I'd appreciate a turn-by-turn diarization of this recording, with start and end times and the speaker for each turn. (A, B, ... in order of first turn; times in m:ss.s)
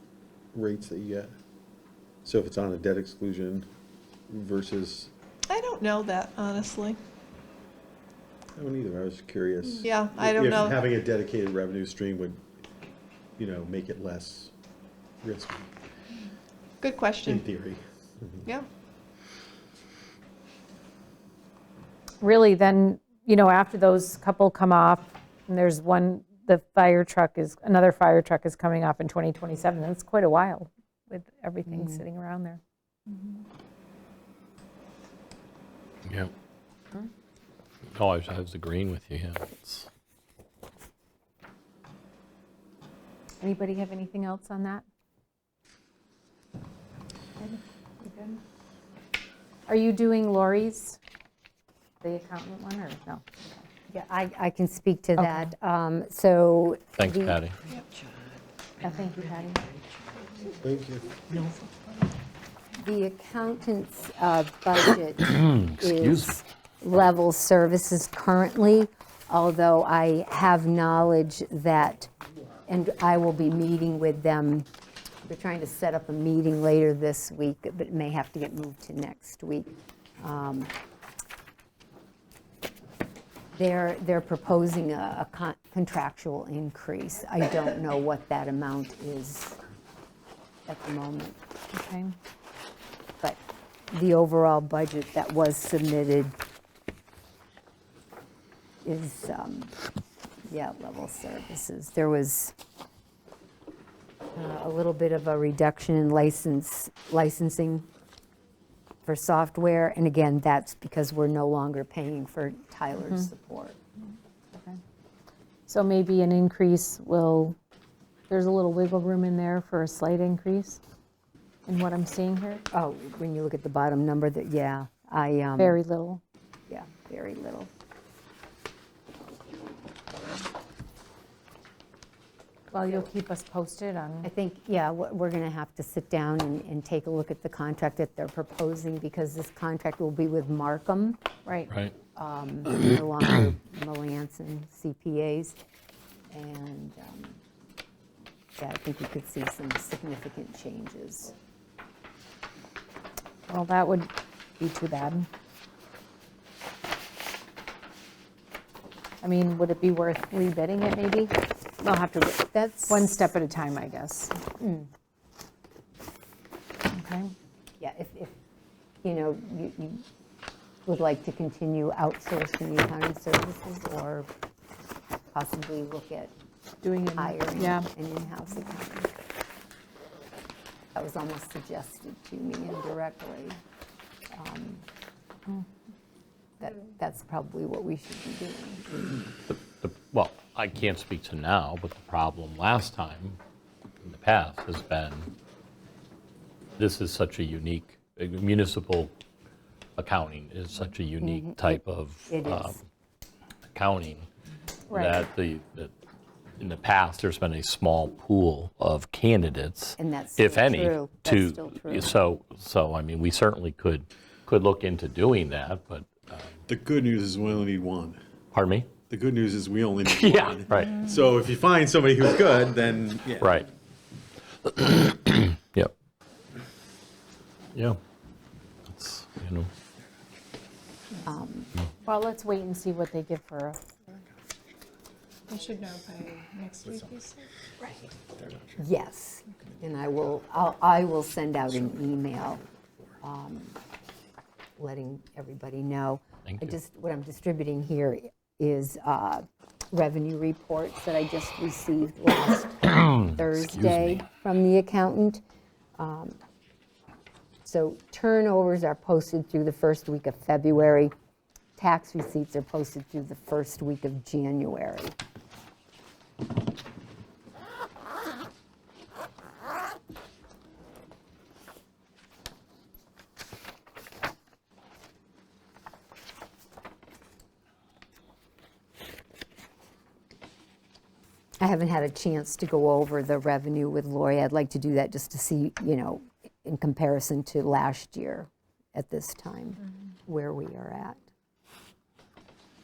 0:00.5-0:01.3 A
0:02.2-0:03.7 A
0:04.3-0:05.1 A
0:05.5-0:07.0 B
0:08.6-0:12.4 A
0:09.8-0:10.8 B
0:13.4-0:14.5 A
0:15.2-0:15.7 A
0:16.8-0:17.5 B
0:17.2-0:18.4 A
0:22.2-0:32.6 C
0:31.7-0:32.0 D
0:36.0-0:36.3 E
0:37.9-0:39.9 E
0:43.4-0:44.8 C
0:47.4-0:48.4 C
0:49.7-0:51.0 C
0:52.0-0:53.6 C
0:53.9-0:57.4 D
0:55.2-0:55.5 C
0:57.0-0:57.6 E
0:58.8-0:59.6 C
1:00.6-1:01.2 A
1:02.8-1:12.1 D
1:05.4-1:06.4 E
1:12.7-1:14.7 D
1:15.2-1:20.7 D
1:23.5-1:29.6 D
1:30.7-1:31.4 D
1:31.7-1:32.1 C
1:33.9-1:36.4 D
1:38.8-1:39.7 D
1:40.5-1:42.5 D
1:44.3-1:47.9 D
1:49.0-1:53.8 D
1:53.0-1:53.3 C
1:55.7-1:57.6 C
1:58.3-2:00.8 C
2:01.6-2:02.6 C
2:02.7-2:05.8 D
2:05.6-2:06.2 C
2:06.7-2:07.7 D
2:12.7-2:14.3 C
2:14.2-2:21.2 D
2:21.4-2:21.7 C
2:21.7-2:21.9 E
2:22.1-2:25.6 D
2:26.3-2:27.4 D
2:28.6-2:31.3 D
2:33.5-2:35.3 C
2:39.2-2:44.4 C
2:42.1-2:43.1 D
2:44.6-2:44.9 D
2:46.9-2:47.3 C
2:47.8-2:48.4 D
2:49.0-2:50.0 D
2:50.8-2:54.3 D
2:55.3-2:56.3 D
2:56.8-2:57.9 C
2:57.0-2:59.1 D
3:00.9-3:03.6 D
3:04.3-3:04.8 D
3:06.6-3:09.2 D
3:09.5-3:13.4 E
3:14.0-3:15.3 E
3:16.8-3:19.1 E
3:20.0-3:22.8 E
3:21.2-3:22.8 D
3:23.7-3:24.3 E
3:24.9-3:25.2 C
3:24.9-3:25.9 E
3:26.6-3:36.6 E
3:30.0-3:32.2 D
3:36.7-3:38.2 A
3:38.5-3:38.9 E
3:39.1-3:43.6 A
3:40.1-3:41.0 E
3:43.4-3:43.7 E
3:44.6-3:45.9 E
3:47.7-3:48.0 E
3:48.9-3:49.7 E
3:51.2-3:51.7 D
3:52.0-3:54.2 C
3:55.5-3:57.5 B
3:58.8-4:02.6 D
4:03.2-4:03.8 D
4:04.8-4:15.4 D
4:06.4-4:06.7 E
4:12.9-4:14.2 E
4:16.0-4:16.4 D
4:17.6-4:21.1 D
4:21.8-4:25.2 D
4:41.6-4:51.3 D